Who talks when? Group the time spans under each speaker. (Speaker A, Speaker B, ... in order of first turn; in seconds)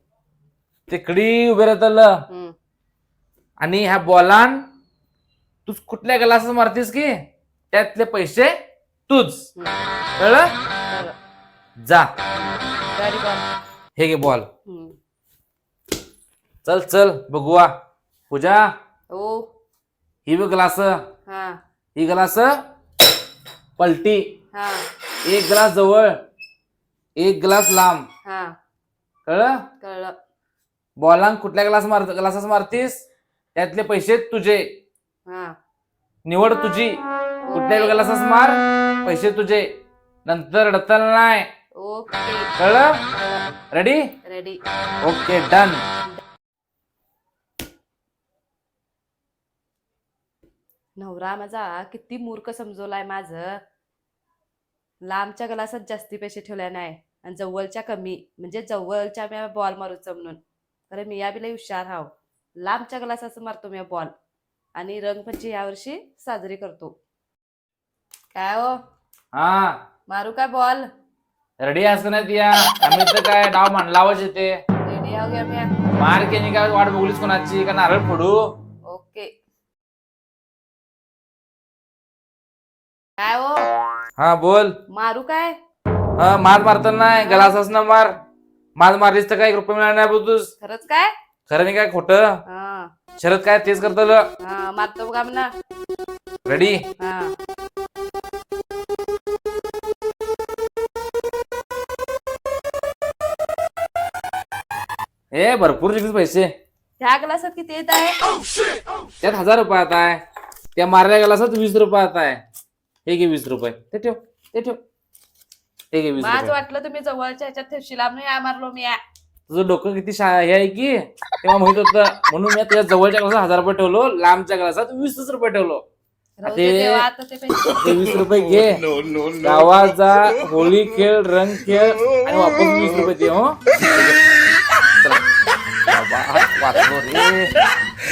Speaker A: 0.9-2.2, 3.6-4.6, 5.7-8.5, 9.1-9.5, 10.2-10.5, 11.8-12.1, 13.9-14.5, 16.6-17.7, 18.3-18.7, 20.2-21.1, 21.9-22.6, 23.8-24.3, 25.2-26.1, 27.2-28.0, 29.2-29.6, 31.0-33.0, 33.5-34.7, 36.2-37.0, 37.5-39.7, 40.2-41.5, 42.6-43.0, 43.7-44.1, 45.0-45.8, 69.3-69.8, 71.6-74.6, 76.0-78.5, 84.2-84.8, 86.2-88.2, 88.8-90.5, 91.5-92.4, 93.2-94.3, 96.5-96.8, 105.3-106.5, 109.2-110.2, 110.7-112.4, 113.0-114.8, 115.9-116.5, 119.5-125.8, 126.5-127.0, 127.8-134.2, 135.9-137.5
Speaker B: 2.3-2.5, 9.5-9.8, 10.9-11.2, 12.4-13.4, 14.7-14.9, 19.1-19.5, 21.3-21.6, 24.5-24.9, 28.2-28.5, 29.8-30.1, 35.2-35.5, 37.5-38.0, 41.8-42.5, 43.1-43.5, 44.2-44.6, 51.0-53.6, 55.0-64.1, 64.8-66.9, 68.3-68.8, 70.1-70.8, 74.8-75.7, 78.9-79.3, 83.2-83.7, 84.9-85.5, 87.2-87.6, 90.6-91.1, 92.5-92.9, 94.4-95.5, 97.0-97.3, 107.0-108.2, 116.2-119.0, 126.4-128.2